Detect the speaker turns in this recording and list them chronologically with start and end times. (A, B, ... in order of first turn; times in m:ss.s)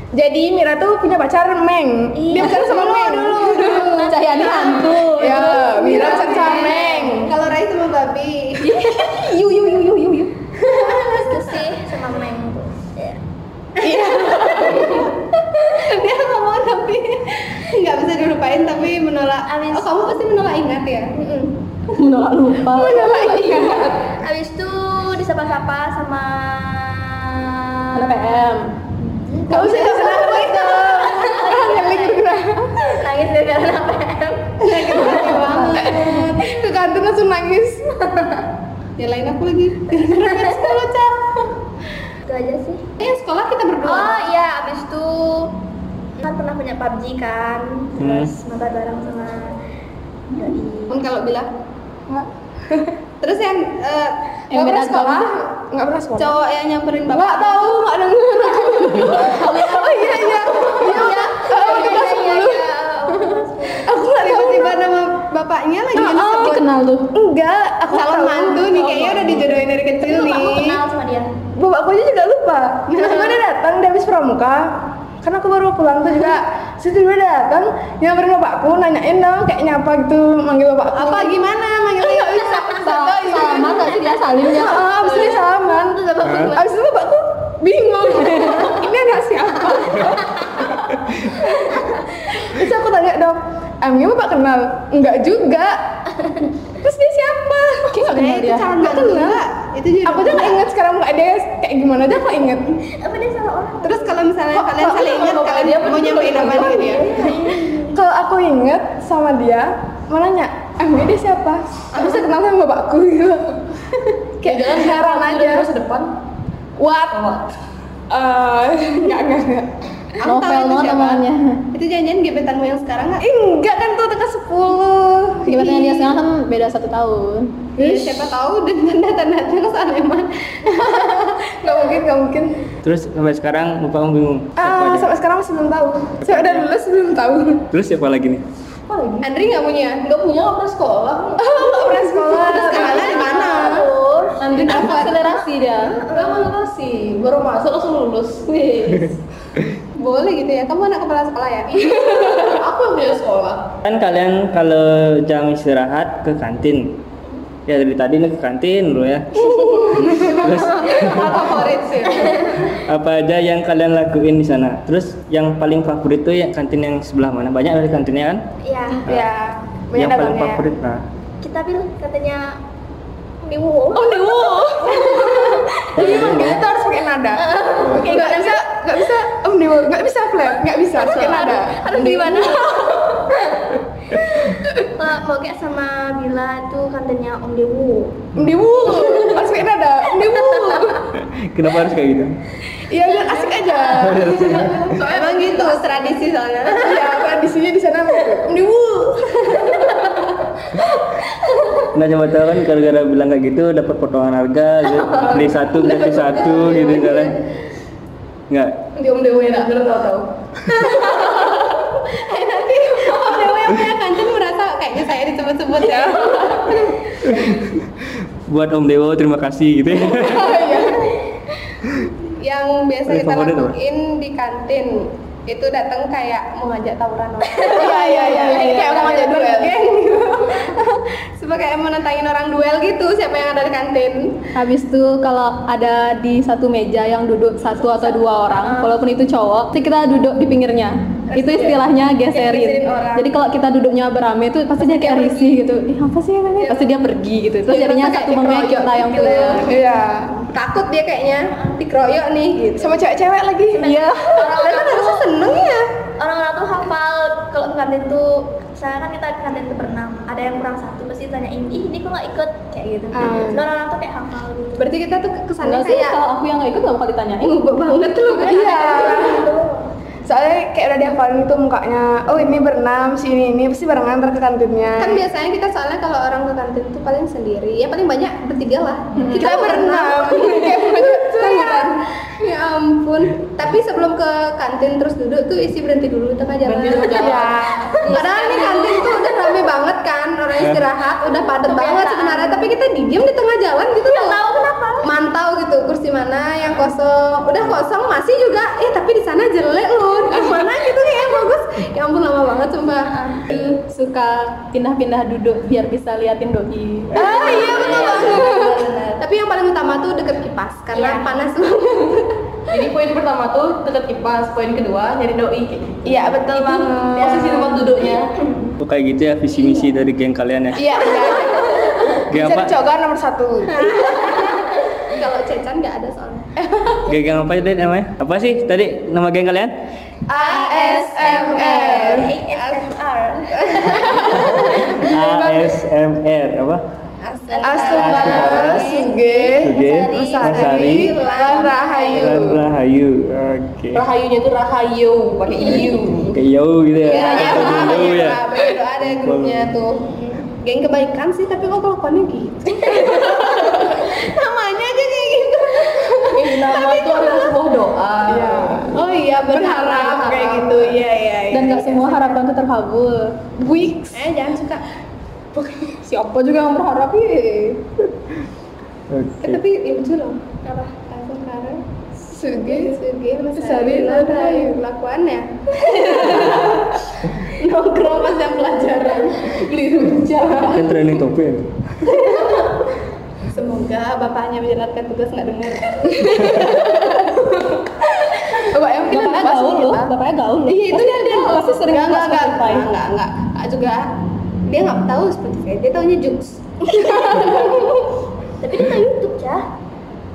0:00.1-0:04.1 A
0:02.2-0:05.0 B
0:02.7-0:03.9 C
0:04.0-0:06.1 D
0:05.2-0:07.3 A
0:05.7-0:07.2 B
0:05.7-0:08.9 C
0:08.6-0:10.3 D
0:10.7-0:13.2 B
0:10.7-0:11.7 C
0:13.8-0:15.1 A
0:13.8-0:21.2 C
0:14.6-0:15.1 B
0:19.4-0:20.1 B
0:21.2-0:21.5 B
0:21.9-0:23.2 D
0:22.7-0:24.1 A
0:23.1-0:23.8 C
0:23.3-0:28.4 B
0:27.9-0:28.7 D
0:29.0-0:36.2 B
0:29.5-0:33.0 A
0:29.5-0:30.2 C
0:34.6-0:37.9 A
0:34.6-0:36.4 C
0:39.0-0:40.9 C
0:40.0-0:41.1 A
0:40.3-0:40.6 B
0:42.2-0:42.9 B
0:43.0-0:44.2 C
0:43.8-0:45.6 B
0:46.2-0:49.6 B
0:48.0-0:48.3 E
0:50.3-0:51.0 B
0:50.9-0:51.5 C
0:52.1-0:52.9 A
0:53.2-0:55.2 C
0:54.5-0:55.3 D
0:54.8-0:56.4 A
0:56.2-0:57.8 C
0:57.1-1:02.7 A
1:00.2-1:02.0 C
1:00.3-1:04.1 B
1:03.8-1:04.8 A
1:04.1-1:06.6 C
1:05.9-1:07.1 D
1:07.1-1:09.4 A
1:07.9-1:10.8 C
1:09.8-1:11.3 B
1:11.6-1:23.9 A
1:13.0-1:13.4 C
1:20.9-1:22.8 C
1:22.8-1:24.9 D
1:24.5-1:35.8 A
1:25.0-1:26.7 B
1:26.2-1:26.5 E
1:36.7-1:37.9 A
1:37.9-1:39.2 D
1:38.1-1:40.6 C
1:38.8-1:39.3 A
1:40.0-1:42.8 A
1:42.9-1:44.2 B
1:43.8-1:45.5 A
1:43.9-1:47.2 C
1:45.2-1:46.8 F
1:46.5-1:48.0 B
1:46.5-1:53.6 A
1:54.4-1:55.7 A
1:54.4-1:56.1 F
1:56.8-1:57.3 A
1:57.1-1:57.4 F
1:58.1-1:59.7 A
2:00.2-2:03.2 C
2:00.2-2:01.6 D
2:03.2-2:05.9 A
2:05.5-2:07.7 D
2:07.8-2:11.3 C
2:07.8-2:08.2 A
2:10.7-2:12.6 A
2:12.8-2:15.1 E
2:14.6-2:17.6 A
2:16.2-2:16.7 E
2:17.7-2:18.4 E
2:18.9-2:19.3 F
2:19.2-2:20.0 C
2:20.0-2:23.4 F
2:21.4-2:23.8 A
2:22.4-2:25.0 B
2:22.5-2:23.9 C
2:24.4-2:26.0 D
2:24.6-2:25.1 C
2:25.9-2:26.5 B
2:26.1-2:29.0 F
2:30.0-2:32.2 C
2:31.7-2:33.7 F
2:33.8-2:37.0 E
2:37.7-2:41.5 E
2:40.7-2:42.5 F
2:42.0-2:42.7 B
2:42.7-2:48.4 E
2:48.6-2:49.1 B
2:49.0-2:50.6 A
2:49.0-2:49.3 E
2:49.9-2:51.0 E
2:51.4-2:52.6 B
2:53.4-2:56.1 B
2:53.9-3:02.5 A
2:55.9-2:56.6 E
2:57.3-2:59.1 B
3:00.9-3:03.2 B
3:01.9-3:02.6 C
3:04.9-3:09.5 B
3:08.3-3:11.1 A
3:10.2-3:10.9 B
3:11.1-3:12.4 E
3:12.9-3:14.9 A
3:13.0-3:14.2 B
3:13.9-3:14.8 E
3:14.4-3:15.8 F
3:14.9-3:17.0 C
3:16.8-3:18.6 A
3:19.6-3:20.0 B
3:21.9-3:27.4 E
3:24.9-3:27.2 F
3:28.5-3:28.8 E
3:29.0-3:30.3 F
3:30.8-3:37.1 C
3:37.2-3:37.7 E
3:38.5-3:40.6 E
3:40.1-3:41.1 A
3:42.3-3:54.4 C
3:43.1-3:43.8 E
3:47.6-3:50.7 A
3:47.8-3:49.7 D
3:54.5-4:09.7 D
3:57.8-3:58.9 B
4:01.3-4:01.8 C
4:02.3-4:03.2 C
4:04.8-4:05.5 C
4:06.6-4:06.9 C
4:07.7-4:09.8 C
4:09.6-4:10.4 A
4:10.5-4:13.0 C
4:12.8-4:13.9 A
4:13.7-4:15.3 B
4:13.8-4:14.4 D
4:14.4-4:15.9 C
4:16.2-4:24.9 B
4:23.1-4:23.7 A
4:24.8-4:26.2 C
4:25.6-4:27.7 D
4:27.4-4:29.3 C
4:28.4-4:29.9 B
4:28.4-4:29.4 A
4:30.2-4:35.2 A
4:35.0-4:54.5 C
4:39.3-4:41.9 A
4:46.6-4:49.0 F
4:47.2-4:48.0 A
4:47.9-4:49.7 B
4:51.5-4:52.7 B
4:54.0-4:55.1 B
4:55.0-5:03.1 C
5:03.0-5:03.5 B
5:03.5-5:09.2 D
5:07.1-5:08.6 C
5:07.1-5:08.8 A
5:07.2-5:07.9 B
5:09.2-5:12.3 C
5:11.0-5:11.2 B
5:12.7-5:18.3 F
5:16.1-5:17.8 A
5:18.8-5:20.8 E
5:19.6-5:19.9 B
5:20.8-5:24.3 A
5:21.2-5:22.0 B
5:22.3-5:22.8 E
5:23.8-5:25.0 B
5:23.8-5:26.5 C
5:27.0-5:29.7 E
5:30.3-5:32.8 C
5:30.3-5:32.3 A
5:30.4-5:34.9 B
5:33.7-5:34.5 C
5:34.0-5:35.6 A
5:34.5-5:36.8 E
5:37.2-5:39.2 C
5:37.5-5:40.7 B
5:37.6-5:42.6 A
5:37.9-5:38.9 E
5:39.6-5:41.1 E
5:40.1-5:42.4 C
5:41.3-5:41.8 B
5:42.1-5:44.0 E
5:43.9-5:46.4 F
5:46.3-5:48.4 E
5:47.0-5:56.0 C
5:47.2-5:47.9 F
5:49.0-5:49.7 E
5:52.8-5:54.3 B
5:56.0-5:56.3 A
5:56.3-5:58.9 F
5:56.8-5:57.2 C
5:58.3-6:01.0 A
5:58.9-6:02.4 C
6:01.5-6:03.4 D
6:03.6-6:04.2 A
6:04.1-6:04.8 C
6:06.0-6:07.8 D
6:09.1-6:09.6 E
6:09.4-6:16.5 C
6:12.5-6:13.0 A
6:13.5-6:14.7 A
6:15.9-6:16.9 D
6:17.8-6:19.4 D
6:19.5-6:20.8 F
6:20.4-6:21.0 D
6:20.6-6:21.7 E
6:23.5-6:27.5 C
6:28.6-6:30.1 A
6:29.1-6:32.9 D
6:30.7-6:34.1 C
6:34.7-6:38.0 C
6:37.3-6:37.7 B
6:38.6-6:39.6 B